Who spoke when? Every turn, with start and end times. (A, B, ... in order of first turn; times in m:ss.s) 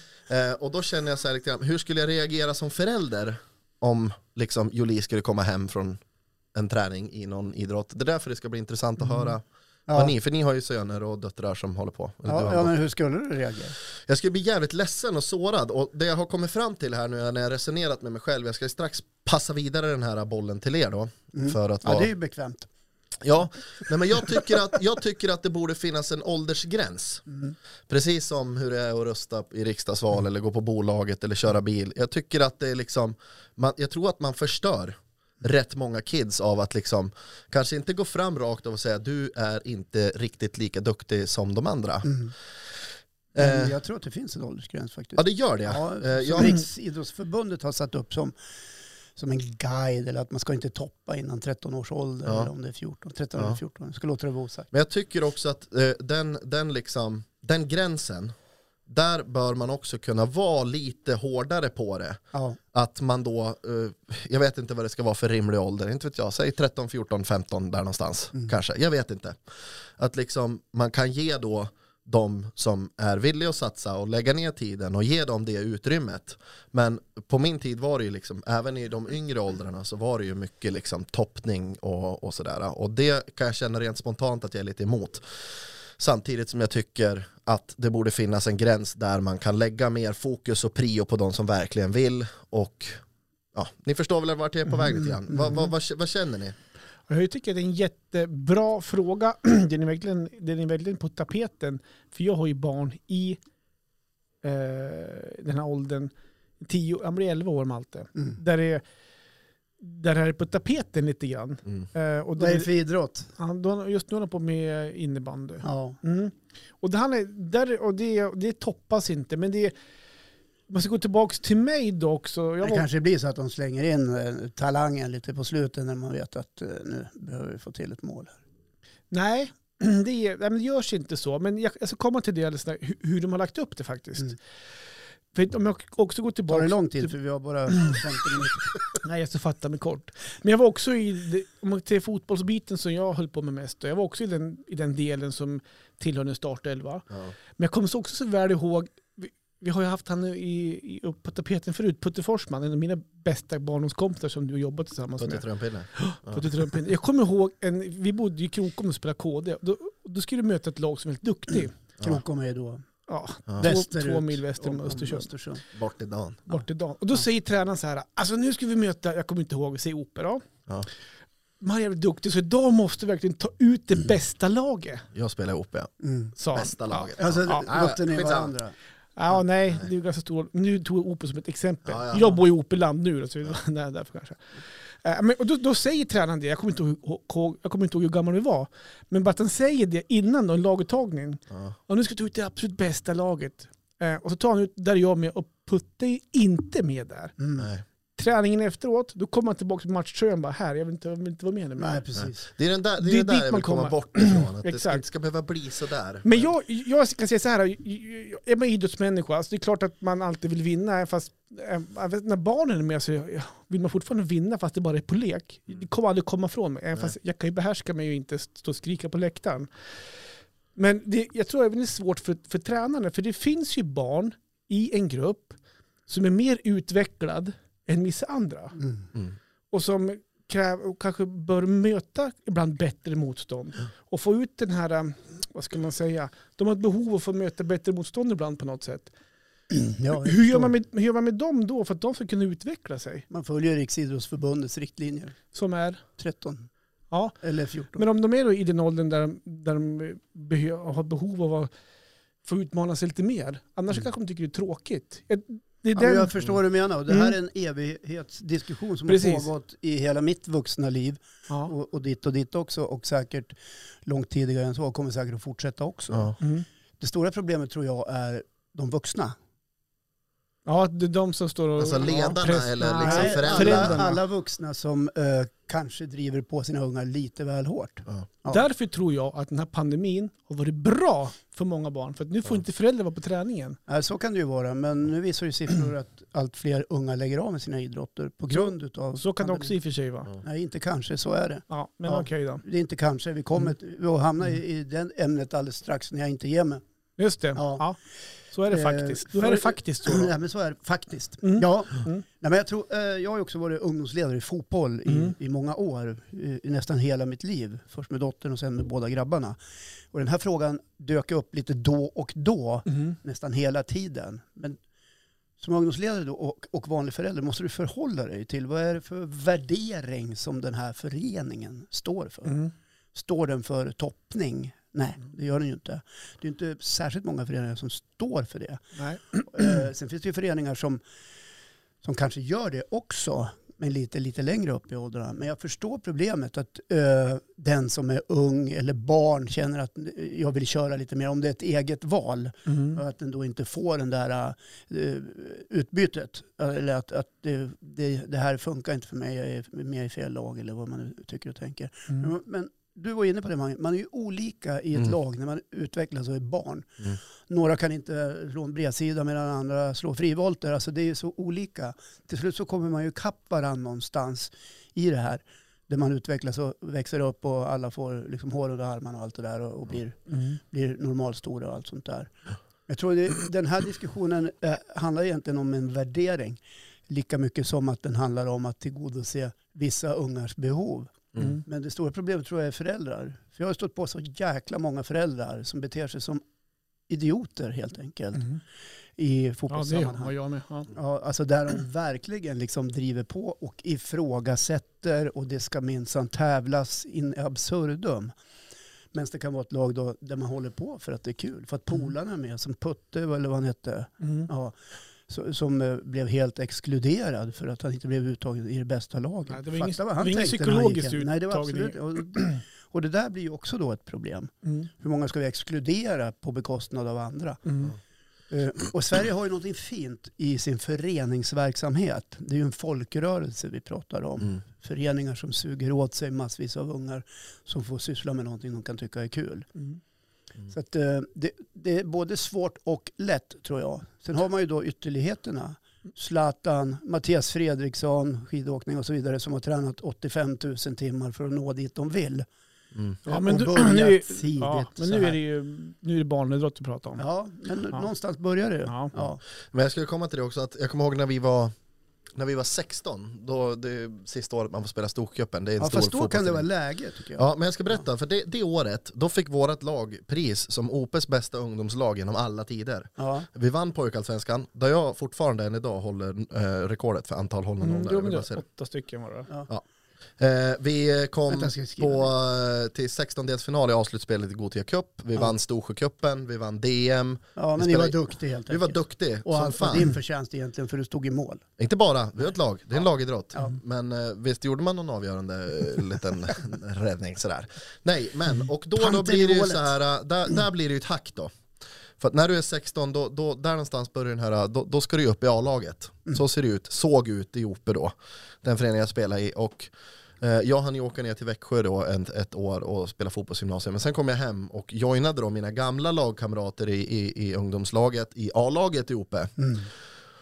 0:00.3-0:06.0 A
0:06.5-0:12.7 A
0:09.9-0:10.1 B
0:12.2-0:13.7 B
0:14.0-0:22.1 A
0:21.3-0:22.7 B
0:23.2-0:27.2 A
0:27.9-0:42.1 A
0:42.0-0:42.3 B
0:43.3-0:43.7 A
0:43.4-0:48.3 B
0:45.2-0:46.6 A
0:49.2-0:54.7 B
0:54.7-0:58.3 A
0:58.9-1:02.2 A
1:02.3-1:02.6 B
1:02.7-1:09.4 A
1:10.0-1:25.2 A
1:26.0-1:33.0 A
1:33.5-1:36.5 A
1:37.1-1:43.4 C
1:44.4-1:48.8 C
1:49.8-1:52.7 C
1:52.4-1:53.3 B
1:53.4-1:59.7 C
1:55.6-1:56.0 B
2:00.7-2:02.8 C
2:02.6-2:08.4 B
2:09.1-2:14.4 C
2:15.3-2:17.1 C
2:16.5-2:18.7 B
2:17.7-2:18.0 C
2:19.0-2:27.0 C
2:27.6-2:35.4 C
2:35.2-2:36.4 A
2:36.0-2:41.7 C
2:42.0-2:42.8 B
2:43.1-2:45.3 C
2:43.6-2:45.6 B
2:45.8-2:46.6 A
2:46.5-2:50.4 C
2:51.6-2:55.1 C
2:55.1-2:55.9 A
2:56.0-2:56.3 B
2:56.4-2:57.7 C
2:56.5-2:58.5 A
2:57.2-2:58.7 B
2:59.2-3:04.4 C
3:01.8-3:02.4 A
3:05.0-3:17.3 C
3:17.4-3:17.7 B
3:17.6-3:17.8 A
3:18.2-3:22.0 C
3:21.8-3:22.5 B
3:22.2-3:26.5 A
3:23.0-3:25.0 C
3:26.2-3:39.7 C
3:40.8-3:45.6 C
3:46.1-3:48.8 C
3:48.8-3:49.0 B
3:49.7-3:59.1 C
3:59.7-4:00.7 B
4:00.2-4:03.2 C
4:03.3-4:05.4 B
4:05.5-4:06.0 C
4:06.2-4:06.7 B
4:07.1-4:07.4 C
4:07.4-4:08.0 B
4:07.9-4:11.7 C
4:12.4-4:16.3 C
4:15.9-4:26.4 B
4:17.1-4:17.3 C
4:19.1-4:19.5 C
4:27.0-4:29.3 B
4:30.6-4:34.2 C
4:31.8-4:34.0 A
4:33.0-4:38.6 B
4:38.5-4:43.8 C
4:43.9-4:49.7 B
4:48.5-4:50.3 C
4:50.4-4:56.8 B
4:51.7-4:52.6 C
4:57.2-4:58.0 C
4:57.5-4:57.8 B
4:58.5-5:00.3 C
4:58.7-5:09.6 B
5:01.4-5:02.2 C
5:05.1-5:05.3 C
5:10.1-5:14.8 B
5:15.6-5:22.6 B
5:23.1-5:28.8 B
5:29.0-5:29.8 C
5:29.5-5:31.0 B
5:32.0-6:12.3 B
5:42.7-5:43.0 C
6:10.3-6:10.6 C
6:12.9-6:26.4 B
6:21.4-6:21.6 C
6:27.1-6:28.5 B
6:29.2-6:30.3 B
6:29.7-6:30.9 C
6:30.9-6:38.3 B
6:39.1-6:44.8 B
6:44.2-6:44.5 C
6:45.3-6:57.6 B
6:49.5-6:52.5 C
6:57.6-6:57.9 C
6:58.5-7:09.7 B
7:10.7-7:22.4 B
7:23.2-7:25.4 B
7:23.3-7:27.2 C
7:27.2-7:29.4 B
7:29.2-7:31.7 A
7:32.4-7:36.6 A
7:35.8-7:37.4 B
7:37.4-7:48.6 A
7:43.2-7:43.5 B
7:47.8-7:49.5 C
7:50.4-7:58.2 A
7:51.5-7:52.3 B
7:57.6-8:01.6 B
7:58.7-8:00.1 A
8:01.8-8:11.5 A
8:09.0-8:09.9 B
8:12.2-8:29.6 A
8:29.6-8:29.9 B